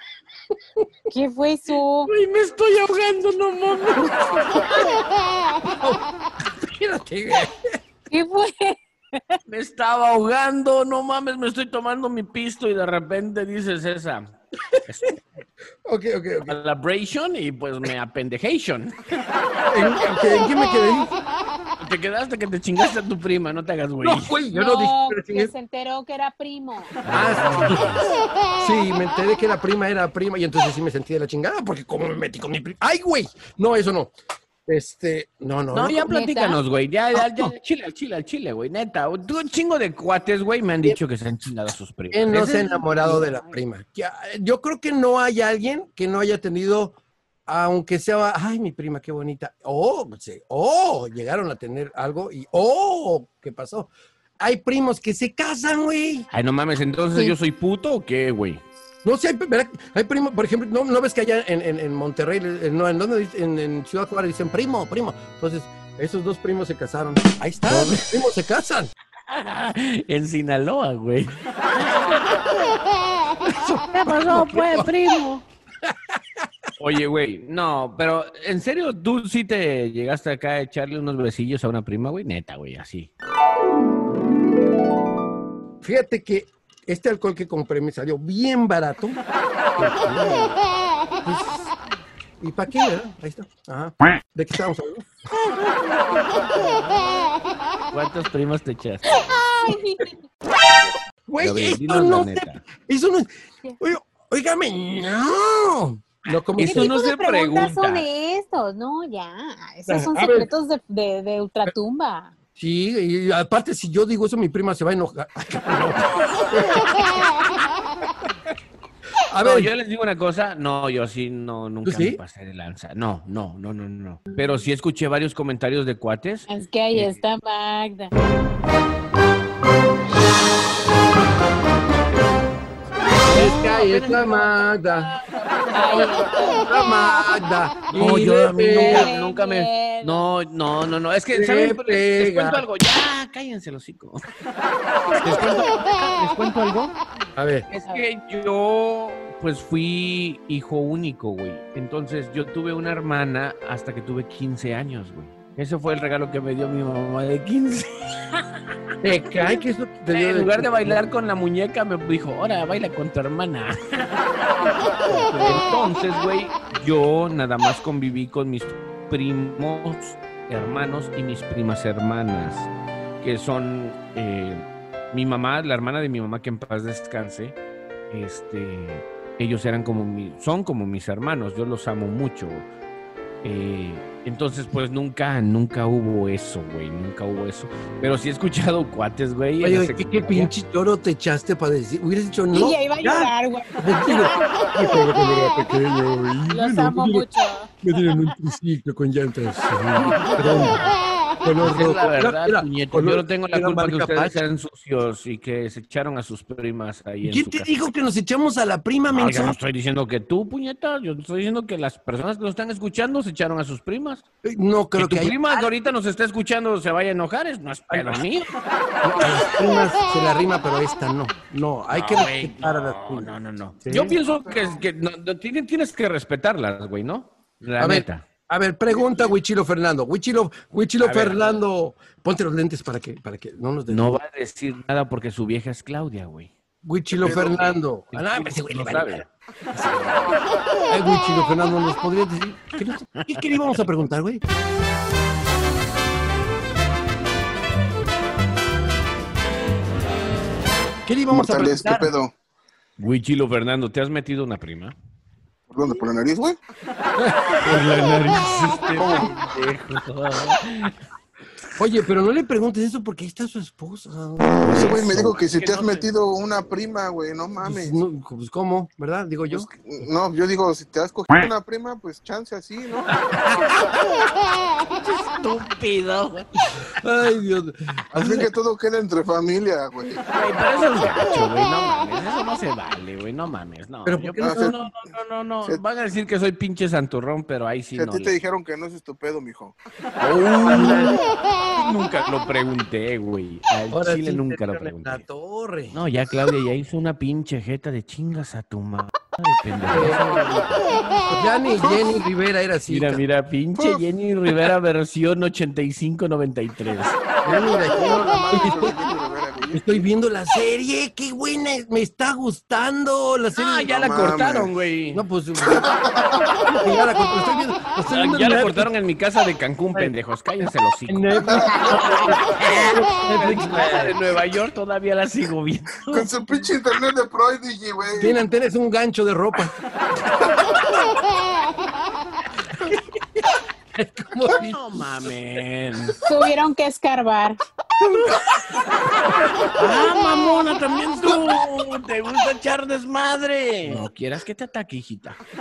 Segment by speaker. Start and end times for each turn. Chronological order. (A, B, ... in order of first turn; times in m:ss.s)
0:01.1-0:02.1 A
0:02.1-0:04.6 B
0:04.7-0:05.0 A
0:05.7-0:07.8 C
0:08.1-0:09.4 A
0:09.5-0:14.3 B
0:14.9-0:15.2 B
0:15.8-0:16.6 C
0:16.5-0:19.1 B
0:19.7-0:21.1 C
0:21.8-0:24.4 B
0:24.0-0:25.5 C
0:24.5-0:27.0 A
0:27.0-0:28.1 B
0:27.1-0:27.9 C
0:28.6-0:34.1 C
0:34.7-0:36.1 C
0:35.7-0:43.2 B
0:36.0-0:36.6 A
0:37.2-0:37.5 C
0:42.1-0:47.0 C
0:43.2-0:43.5 A
0:47.5-0:56.3 C
0:56.3-0:58.6 B
0:59.0-1:08.9 C
1:07.7-1:08.1 B
1:09.3-1:12.7 B
1:13.4-1:14.9 C
1:13.9-1:15.4 B
1:15.8-1:16.5 C
1:16.8-1:23.1 B
1:25.8-1:29.2 C
1:29.8-1:30.6 C
1:31.2-1:31.7 C
1:32.4-1:35.1 C
1:36.6-1:37.1 B
1:37.9-1:39.4 B
1:39.1-1:40.2 A
1:41.3-1:47.0 C
1:41.4-1:42.6 B
1:46.6-1:48.1 B
1:46.6-1:52.3 A
1:49.9-1:50.5 C
1:52.6-1:57.1 C
1:59.3-1:59.7 C
1:59.4-2:07.2 B
2:01.8-2:02.2 C
2:06.5-2:08.1 A
2:13.2-2:16.6 B
2:13.3-2:15.1 C
2:15.7-2:16.7 A
2:16.6-2:19.1 C
2:17.9-2:24.2 B
2:18.6-2:20.3 A
2:21.3-2:22.6 C
2:25.2-2:27.0 B
2:27.4-2:27.7 C
2:27.7-2:38.4 B
2:39.0-2:41.0 C
2:40.1-2:44.7 B
2:45.1-2:45.6 C
2:45.3-2:52.7 B
2:53.2-2:57.6 B
2:58.1-3:02.7 B
3:03.4-3:10.5 B
3:09.6-3:17.3 C
3:12.5-3:14.4 A
3:16.5-3:18.4 A
3:17.8-3:20.9 C
3:20.4-3:20.9 A
3:21.4-3:24.4 C
3:21.6-3:27.7 B
3:27.2-3:29.6 C
3:29.1-3:34.2 B
3:34.4-3:35.7 C
3:35.0-3:38.5 B
3:37.9-3:38.2 C
3:39.0-3:44.2 C
3:41.9-3:48.2 B
3:44.4-3:44.8 D
3:47.8-3:54.2 C
3:48.9-3:49.3 D
3:51.0-3:51.6 B
3:53.9-3:56.5 B
3:56.8-4:04.4 C
3:57.2-3:57.5 D
3:57.2-3:59.3 B
4:11.1-4:12.1 C
4:11.3-4:12.3 D
4:13.0-4:14.9 B
4:15.7-4:16.6 D
4:17.2-4:17.8 C
4:17.6-4:21.0 B
4:19.0-4:19.3 D
4:21.8-4:25.2 C
4:24.6-4:26.1 B
4:24.7-4:28.0 D
4:27.6-4:29.7 C
4:29.4-4:33.1 D
4:33.3-4:33.8 C
4:35.0-4:36.5 B
4:36.8-4:38.5 C
4:38.1-4:40.2 D
4:40.3-4:48.4 B
4:44.1-4:44.8 C
4:44.4-4:44.8 D
4:47.9-4:49.8 D
4:50.2-4:51.2 B
4:50.6-4:51.2 C
4:51.8-4:55.2 B
4:53.9-4:56.0 C
4:55.9-5:00.8 B
4:59.9-5:03.2 C
5:01.8-5:02.1 D
5:02.9-5:07.2 B
5:03.8-5:04.1 D
5:07.4-5:09.0 C
5:07.8-5:10.0 D
5:09.7-5:13.9 C
5:13.6-5:15.2 B
5:13.9-5:14.7 D
5:15.1-5:16.0 C
5:15.7-5:16.6 D
5:16.7-5:18.9 C
5:18.1-5:26.3 B
5:21.1-5:24.2 C
5:21.4-5:21.8 D
5:26.1-5:28.4 D
5:28.1-5:29.7 C
5:33.9-5:34.8 C
5:34.5-5:36.2 B
5:36.2-5:37.6 A
5:39.7-5:45.4 B